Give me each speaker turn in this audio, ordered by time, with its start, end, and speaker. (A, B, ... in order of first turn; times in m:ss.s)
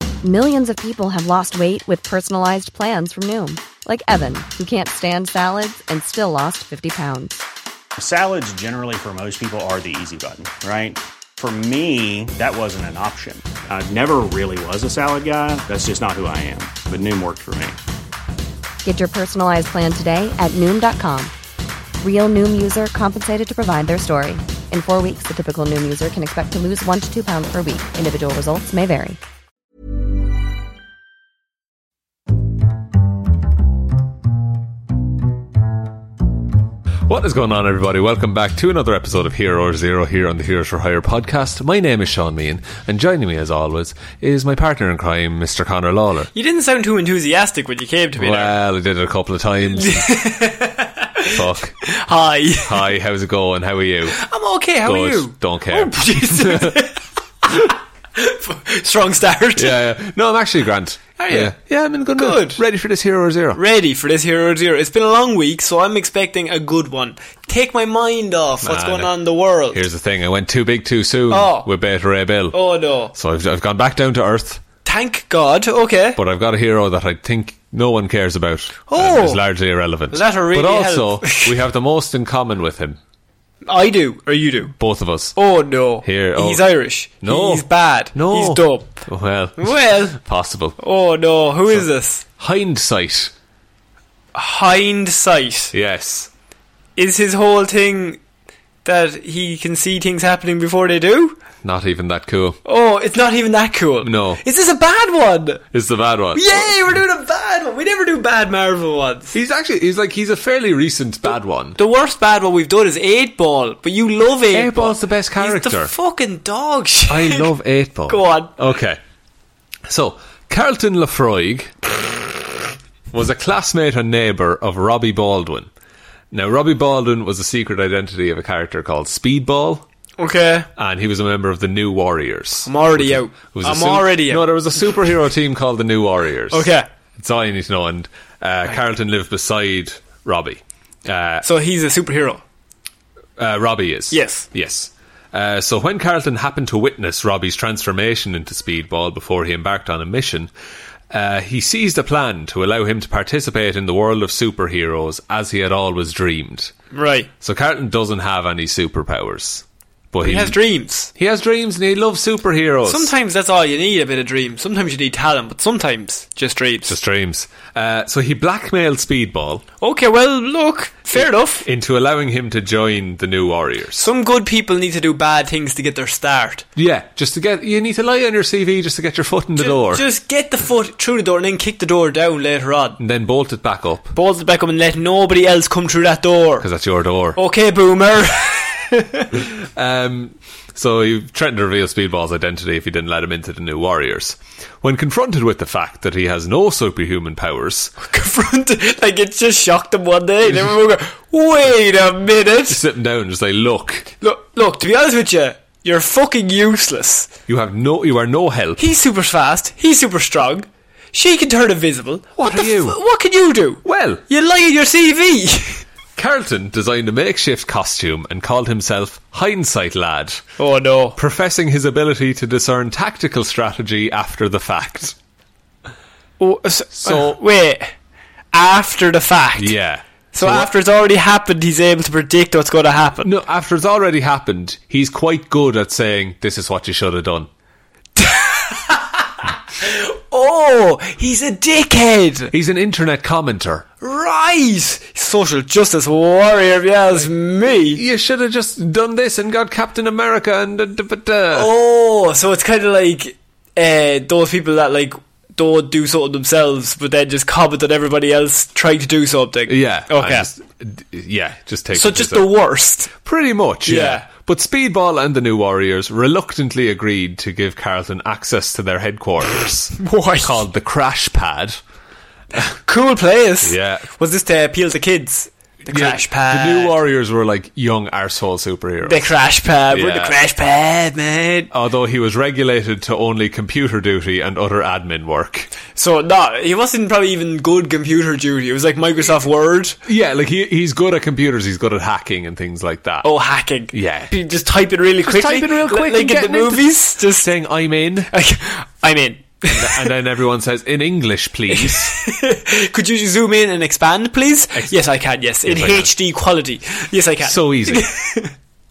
0:00.2-0:07.4 A
0:08.0-0:17.8 B
0:18.8-0:21.3 A
0:22.0-0:29.2 A
0:37.1-0:46.3 C
0:46.3-0:48.6 D
0:48.2-0:50.1 C
0:49.8-0:51.3 D
0:51.3-0:51.8 C
0:51.9-0:52.9 D
0:52.6-0:54.2 C
0:54.1-0:59.8 D
0:54.8-0:56.8 C
0:59.6-1:03.6 C
1:01.2-1:01.5 D
1:02.2-1:02.6 D
1:03.6-1:09.8 D
1:08.6-1:09.1 C
1:09.7-1:12.6 C
1:11.3-1:11.7 D
1:12.5-1:13.1 D
1:13.1-1:14.6 C
1:14.8-1:16.2 D
1:16.2-1:23.0 C
1:18.9-1:19.4 D
1:20.1-1:21.6 D
1:23.6-1:24.7 D
1:24.8-1:25.4 C
1:25.4-1:29.1 D
1:26.0-1:26.7 C
1:27.2-1:30.8 C
1:29.6-1:30.2 D
1:30.8-1:32.2 D
1:32.4-1:33.3 C
1:34.4-1:35.7 D
1:35.7-1:36.3 C
1:37.0-1:38.2 D
1:38.8-1:41.4 D
1:41.6-1:42.6 C
1:42.6-1:45.6 D
1:44.0-1:44.4 C
1:45.7-1:46.8 C
1:46.3-1:49.4 D
1:49.3-1:51.8 C
1:51.8-1:57.5 D
1:54.5-1:55.9 C
1:57.1-1:59.0 C
1:58.1-1:58.6 D
1:59.9-2:01.9 C
2:03.1-2:05.7 C
2:06.3-2:09.8 C
2:10.2-2:10.7 D
2:10.8-2:21.4 C
2:12.6-2:14.7 D
2:16.5-2:16.9 D
2:21.4-2:22.4 D
2:23.4-2:30.5 C
2:24.1-2:24.5 D
2:31.1-2:36.7 C
2:36.9-2:37.3 D
2:37.4-2:40.6 C
2:40.2-2:41.1 D
2:41.2-2:43.1 C
2:42.9-2:47.0 D
2:46.8-2:49.6 C
2:49.8-2:51.7 D
2:51.6-2:54.1 C
2:54.0-2:56.7 D
2:56.8-3:00.0 C
2:59.6-3:03.0 D
3:03.0-3:04.2 C
3:04.1-3:06.7 D
3:06.6-3:07.4 C
3:07.4-3:09.4 D
3:09.8-3:17.9 C
3:18.0-3:22.8 D
3:22.7-3:24.1 C
3:24.2-3:27.3 D
3:27.5-3:28.9 C
3:28.8-3:35.8 D
3:32.4-3:33.0 C
3:33.8-3:34.2 C
3:36.2-3:40.4 C
3:40.6-3:41.2 D
3:41.2-3:45.2 C
3:46.4-3:47.9 D
3:47.0-3:47.4 C
3:48.5-3:49.8 D
3:49.6-3:50.7 C
3:50.3-3:53.3 D
3:53.2-3:57.5 C
3:58.2-4:02.5 D
4:02.5-4:03.9 C
4:04.0-4:08.0 D
4:07.8-4:11.7 C
4:11.5-4:20.5 D
4:19.7-4:22.5 C
4:21.9-4:23.1 D
4:23.2-4:31.8 C
4:23.8-4:24.3 D
4:30.0-4:30.6 D
4:32.8-4:37.0 D
4:33.6-4:34.1 C
4:35.9-4:39.3 C
4:39.0-4:41.7 D
4:39.9-4:40.4 C
4:41.7-4:45.7 C
4:46.0-4:50.0 D
4:50.0-4:53.3 C
4:53.2-4:57.5 D
4:53.9-4:54.3 C
4:55.2-4:58.3 C
4:58.3-5:00.1 D
4:59.7-5:02.1 C
5:01.7-5:08.5 D
5:05.6-5:06.1 C
5:07.4-5:08.1 C